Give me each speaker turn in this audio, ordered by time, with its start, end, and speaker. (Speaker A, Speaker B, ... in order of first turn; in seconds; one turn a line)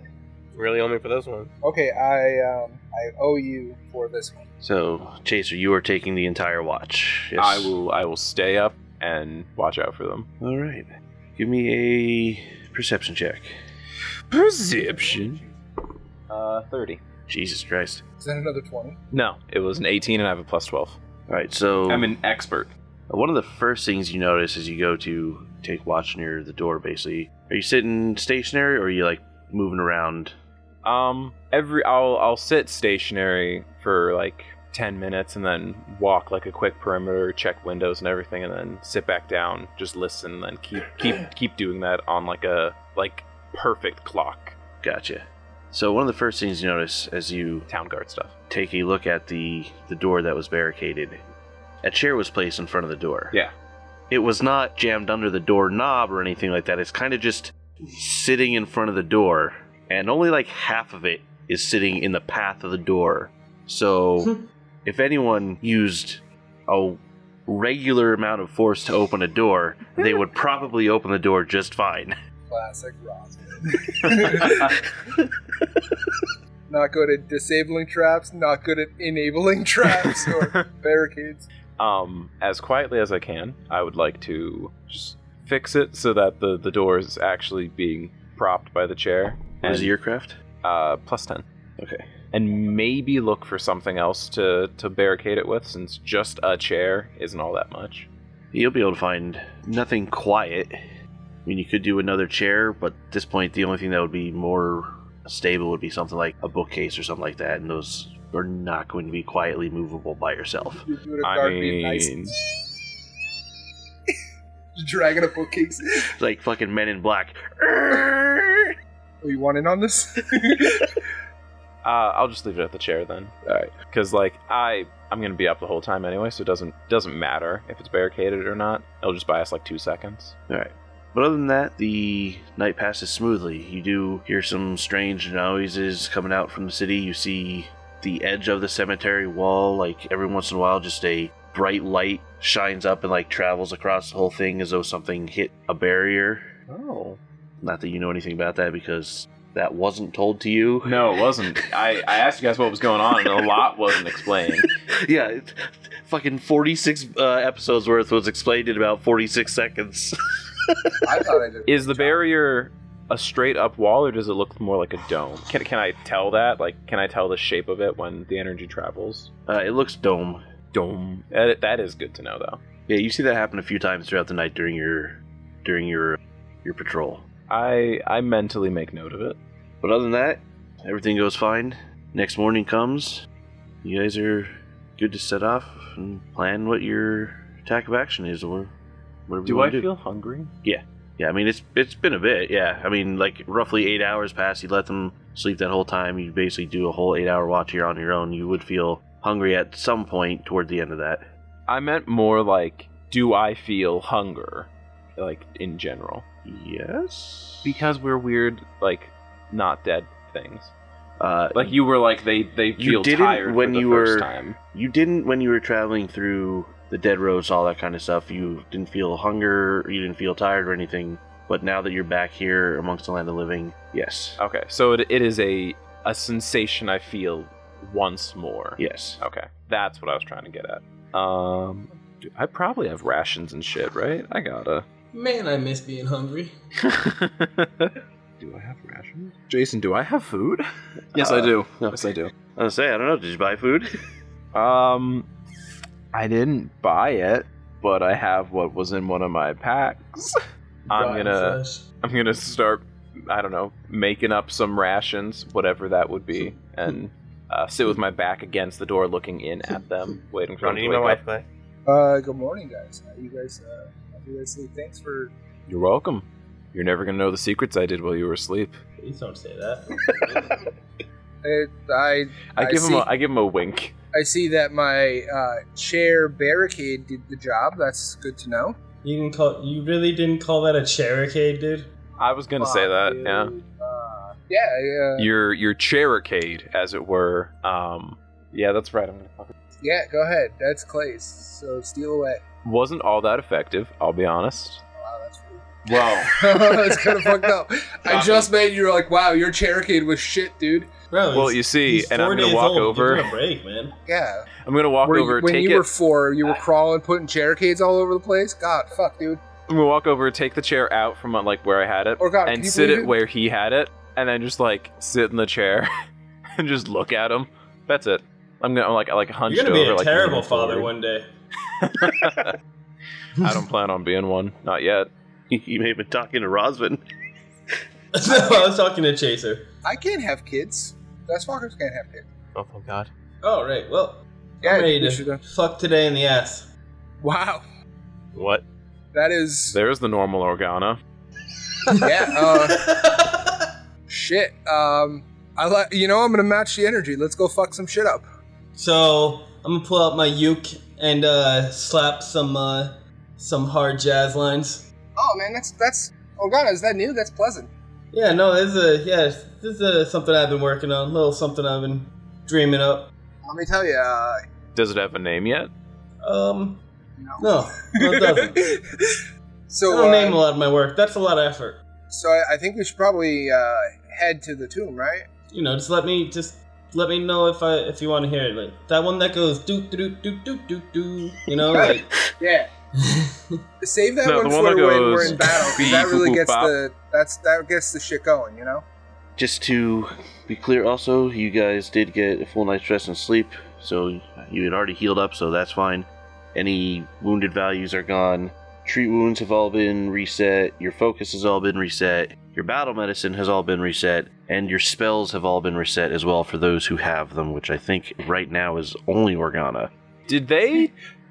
Speaker A: 0.5-1.5
Speaker B: 1.6-4.4
Speaker C: 4.6-7.8
Speaker D: 7.4-10.3
Speaker C: 10.4-13.5
Speaker D: 14.3-15.4
Speaker B: 14.8-15.5
Speaker D: 16.3-17.0
Speaker C: 17.3-18.0
Speaker B: 18.2-19.0
Speaker D: 19.1-21.0
Speaker C: 21.3-22.1
Speaker D: 21.9-22.7
Speaker C: 23.1-30.3
Speaker D: 30.8-44.5
Speaker C: 44.8-47.7
Speaker D: 47.7-48.3
Speaker C: 48.5-51.2
Speaker C: 51.8-53.3
Speaker C: 54.1-72.2
Speaker B: 72.5-74.7
Speaker C: 74.3-74.6
Speaker B: 76.7-81.5
Speaker D: 80.0-80.6
Speaker D: 81.8-89.9
Speaker C: 89.6-90.4
Speaker D: 90.6-91.4
Speaker C: 91.8-92.1
Speaker D: 92.3-98.1
Speaker C: 98.5-100.8
Speaker C: 101.4-110.8
Speaker B: 110.7-112.2
Speaker D: 111.2-112.3
Speaker B: 114.7-115.8
Speaker C: 116.2-118.7
Speaker B: 119.2-121.0
Speaker D: 121.8-130.3
Speaker C: 123.5-123.7
Speaker C: 130.5-146.5
Speaker D: 146.7-147.2
Speaker C: 147.6-151.2
Speaker D: 150.8-154.7
Speaker C: 154.9-160.7
Speaker B: 161.0-162.2
Speaker D: 161.7-169.3
Speaker C: 169.5-170.4
Speaker D: 170.7-172.6
Speaker C: 172.9-177.2
Speaker D: 177.5-179.4
Speaker C: 179.8-183.2
Speaker C: 183.8-188.7
Speaker C: 189.3-189.9
Speaker D: 189.4-190.5
Speaker C: 190.6-201.2
Speaker D: 201.7-206.2
Speaker C: 206.4-207.8
Speaker D: 207.6-210.7
Speaker C: 211.2-211.8
Speaker D: 211.5-214.6
Speaker C: 212.8-224.4
Speaker D: 224.4-234.8
Speaker C: 228.8-229.2
Speaker E: 235.1-236.5
Speaker D: 236.8-242.3
Speaker C: 241.1-242.0
Speaker C: 242.6-243.9
Speaker D: 244.5-245.2
Speaker D: 246.1-250.3
Speaker E: 250.9-251.8
Speaker D: 250.9-261.2
Speaker A: 260.6-261.4
Speaker B: 261.9-265.3
Speaker D: 265.7-268.8
Speaker E: 269.0-270.6
Speaker B: 271.4-273.1
Speaker D: 272.5-273.9
Speaker B: 274.1-278.8
Speaker E: 279.0-281.9
Speaker D: 282.2-283.5
Speaker B: 282.6-285.3
Speaker D: 285.2-289.5
Speaker B: 289.8-292.4
Speaker D: 292.6-294.8
Speaker B: 295.0-295.7
Speaker D: 295.9-297.0
Speaker B: 296.2-300.9
Speaker D: 298.1-298.5
Speaker E: 301.1-303.9
Speaker D: 301.3-303.3
Speaker B: 304.1-304.5
Speaker D: 304.6-305.9
Speaker B: 305.0-309.4
Speaker D: 309.7-315.9
Speaker B: 312.2-313.1
Speaker D: 316.6-320.9
Speaker E: 319.5-321.3
Speaker D: 321.8-322.5
Speaker D: 323.4-325.1
Speaker C: 325.5-327.0
Speaker E: 328.1-329.6
Speaker B: 328.2-328.7
Speaker B: 329.8-332.2
Speaker A: 332.5-333.1
Speaker E: 333.4-336.7
Speaker B: 334.6-335.4
Speaker B: 337.2-337.6
Speaker A: 338.3-338.6
Speaker B: 339.1-339.8
Speaker D: 339.7-341.0
Speaker E: 341.9-343.7
Speaker B: 342.0-342.8
Speaker B: 344.1-348.3
Speaker E: 348.8-354.8
Speaker B: 355.2-357.7
Speaker E: 358.1-363.1
Speaker B: 363.4-364.4
Speaker D: 364.7-365.7
Speaker E: 366.2-366.8
Speaker B: 367.2-370.4
Speaker E: 367.4-368.6
Speaker E: 369.9-371.8
Speaker B: 372.1-375.2
Speaker E: 375.5-382.1
Speaker B: 381.7-382.7
Speaker E: 383.0-383.6
Speaker B: 383.8-388.8
Speaker D: 384.2-386.7
Speaker E: 385.2-385.4
Speaker C: 389.4-409.9
Speaker D: 410.3-410.9